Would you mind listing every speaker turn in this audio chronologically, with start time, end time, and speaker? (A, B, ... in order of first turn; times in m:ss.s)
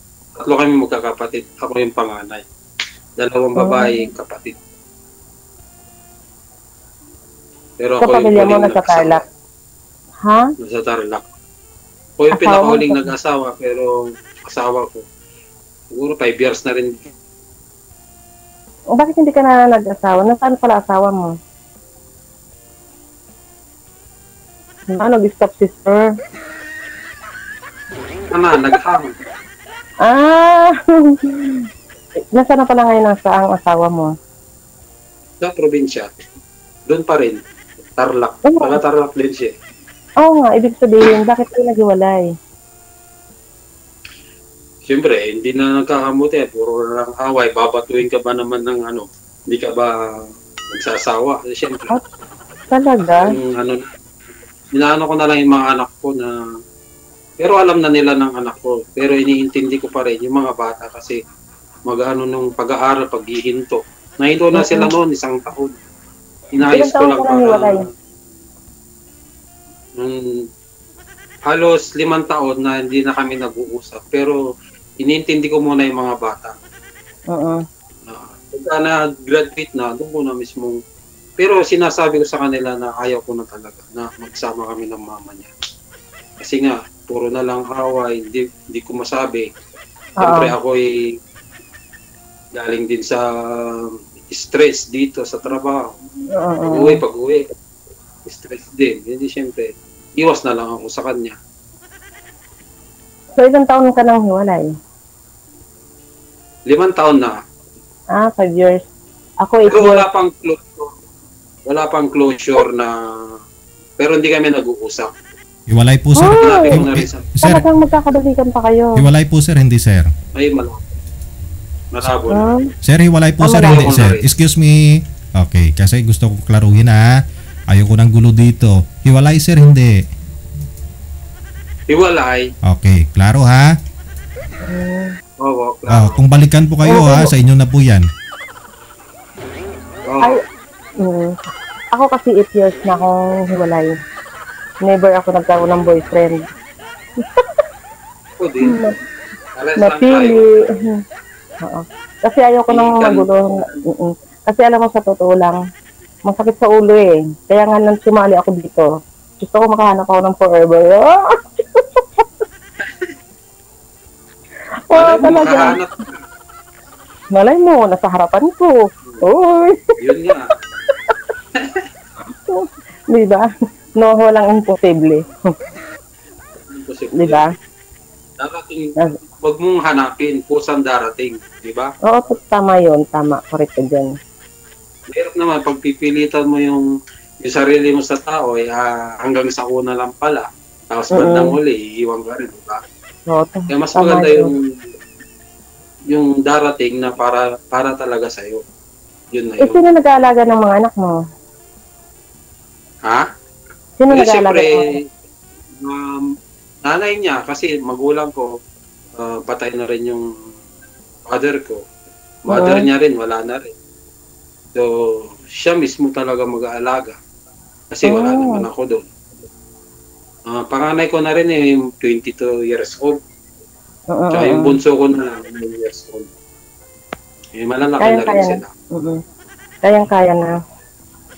0:00.4-0:02.4 A
0:03.2-0:04.6 A
0:03.6-0:04.0 B
0:07.8-0:09.2 A
0:08.0-0:09.2 B
0:10.6-0:11.2 A
0:12.2-0:13.9 A
0:12.3-0:13.1 B
0:14.5-0:15.0 A
0:15.9-0:17.1 A
0:19.0-0:21.3 B
0:24.9-0:26.1 B
0:28.3-0:29.2 A
0:30.0-0:31.6 B
0:32.4-0:34.1 B
0:35.4-0:36.1 A
0:36.9-0:37.4 A
0:38.0-0:39.6 A
0:38.5-0:38.8 B
0:40.2-0:42.2 B
0:44.9-0:49.9 A
0:50.7-0:52.0 A
0:52.7-0:53.3 B
0:53.0-0:53.8 A
0:54.8-0:56.3 A
0:57.4-1:01.2 A
1:01.9-1:05.7 A
1:04.6-1:04.9 B
1:06.6-1:07.7 A
1:06.6-1:07.8 B
1:11.5-1:14.4 A
1:15.0-1:16.6 A
1:17.3-1:17.6 B
1:18.1-1:20.8 A
1:21.4-1:25.5 A
1:26.4-1:29.5 A
1:30.2-1:30.5 B
1:30.2-1:30.8 A
1:32.6-1:35.8 A
1:36.4-1:37.0 B
1:36.7-1:37.4 A
1:38.3-1:39.7 A
1:40.2-1:41.4 A
1:43.4-1:44.7 B
1:46.7-1:47.3 A
1:48.2-1:48.9 B
1:49.4-1:50.0 B
1:49.7-1:50.9 A
1:51.7-1:52.9 A
1:54.0-1:55.1 A
1:55.7-1:57.6 C
1:56.2-1:56.8 B
1:56.3-1:57.3 A
1:57.4-1:59.0 B
1:59.0-2:00.1 C
2:00.4-2:00.8 A
2:01.9-2:02.5 A
2:02.3-2:02.7 B
2:02.8-2:04.8 C
2:03.4-2:03.9 B
2:03.6-2:04.3 A
2:05.4-2:07.1 C
2:07.7-2:09.9 C
2:11.9-2:12.4 A
2:12.7-2:13.7 C
2:14.7-2:15.1 B
2:15.4-2:16.2 A
2:15.9-2:18.0 C
2:16.9-2:17.3 B
2:20.1-2:20.4 A
2:21.0-2:21.4 B
2:21.9-2:23.9 B
2:24.8-2:26.5 B
2:28.4-2:28.9 A
2:28.7-2:28.9 B
2:29.6-2:30.4 A
2:29.8-2:30.5 B
2:31.6-2:35.6 B
2:32.7-2:33.7 A
2:36.3-2:38.9 B
2:39.4-2:42.2 B
2:42.8-2:43.1 A
2:44.9-2:45.8 B
2:44.9-2:46.2 A
2:47.3-2:49.8 B
2:50.0-2:50.5 A
2:51.6-2:51.8 A
2:52.5-2:53.5 B
2:54.0-2:55.2 B
2:56.7-2:57.5 A
2:57.2-2:57.5 B
2:58.4-3:01.9 A
3:02.1-3:04.1 B
3:05.1-3:06.9 A
3:07.4-3:12.8 A
3:11.1-3:11.5 B
3:13.3-3:14.5 B
3:13.7-3:14.5 A
3:16.1-3:18.6 A
3:19.3-3:19.8 A
3:19.6-3:21.2 B
3:24.0-3:24.8 B
3:24.1-3:24.8 A
3:25.8-3:26.1 A
3:26.8-3:28.5 A
3:29.2-3:30.2 A
3:31.3-3:31.8 A
3:32.5-3:33.7 A
3:32.5-3:32.8 B
3:35.6-3:37.2 A
3:37.9-3:39.1 A
3:38.0-3:38.6 B
3:40.5-3:43.2 A
3:44.1-3:44.8 B
3:44.3-3:46.3 A
3:47.6-3:48.7 A
3:48.0-3:49.2 B
3:49.8-3:50.5 B